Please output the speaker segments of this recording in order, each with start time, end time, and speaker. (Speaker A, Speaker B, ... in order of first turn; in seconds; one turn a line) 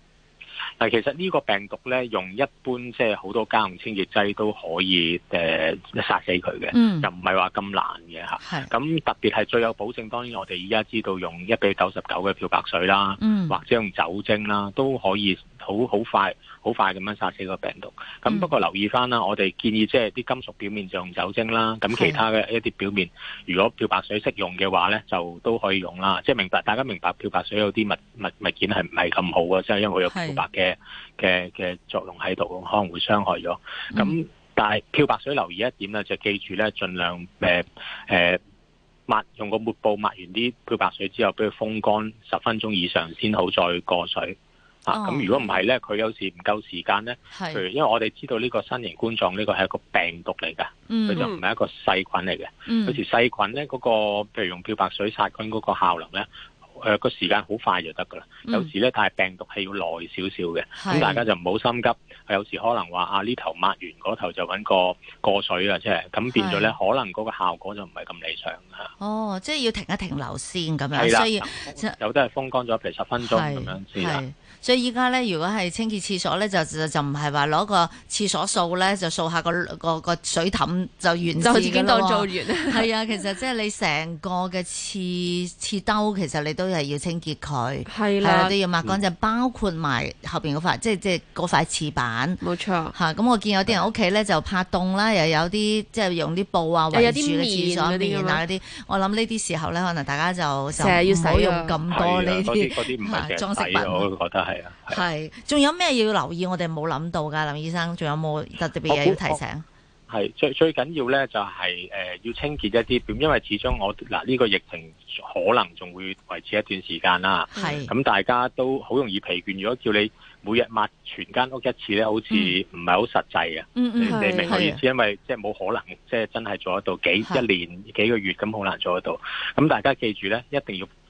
Speaker A: 0.8-38.4
Speaker B: 6.7-7.1
Speaker B: 8.4-8.7
Speaker B: 13.2-13.6
Speaker B: 21.9-22.2
Speaker B: 30.1-30.4
Speaker A: 39.1-68.9
Speaker B: 44.9-45.3
Speaker B: 47.3-47.6
Speaker B: 50.9-51.3
Speaker B: 52.7-53.0
Speaker B: 60.8-61.2
Speaker B: 66.3-66.7
Speaker B: 69.0-72.0
Speaker A: 70.9-74.2
Speaker B: 73.2-92.4
Speaker C: 81.4-82.9
Speaker C: 87.9-88.5
Speaker C: 92.4-92.9
Speaker B: 92.9-104.1
Speaker C: 96.9-98.4
Speaker C: 100.7-101.8
Speaker A: 101.9-105.0
Speaker B: 104.9-109.6
Speaker A: 108.9-109.4
Speaker A: 110.1-130.9
Speaker B: 117.6-117.9
Speaker B: 122.3-122.5
Speaker B: 123.7-124.8
Speaker C: 124.1-124.6